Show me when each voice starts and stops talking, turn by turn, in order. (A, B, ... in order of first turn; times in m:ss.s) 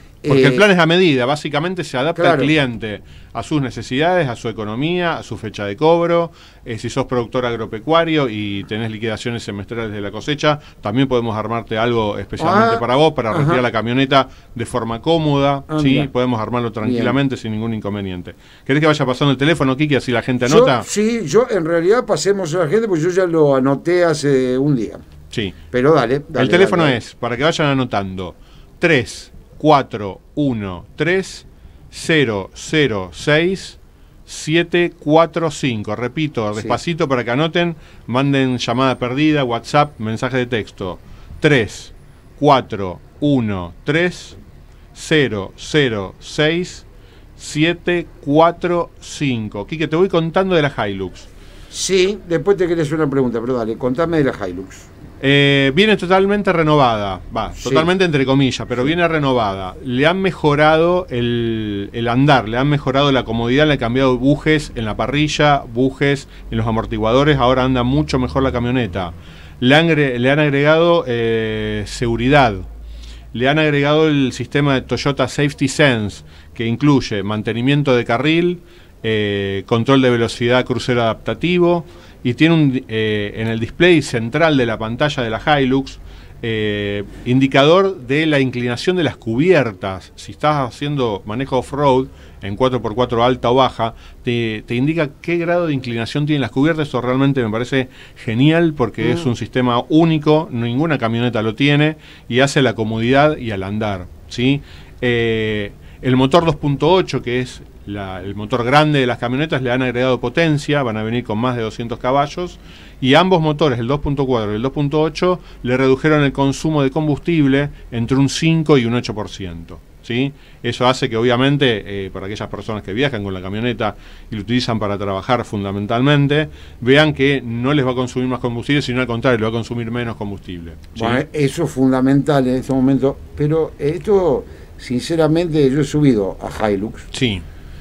0:00.2-0:00.6 A
0:00.3-0:20.9 B
0:02.2-0:02.5 A
0:12.4-0:13.6 A
0:15.7-0:16.1 A
0:16.8-0:17.2 A
0:20.4-0:25.0 A
0:25.3-0:25.6 B
0:25.7-0:27.0 A
0:26.3-0:44.4 B
0:36.5-0:36.8 A
0:44.9-0:46.8 B
0:47.4-0:51.3 B
0:51.7-0:54.9 A
0:55.2-1:12.7 B
0:57.6-0:57.9 A
1:13.3-2:11.2 B
2:10.9-2:17.1 A
2:17.1-2:17.4 B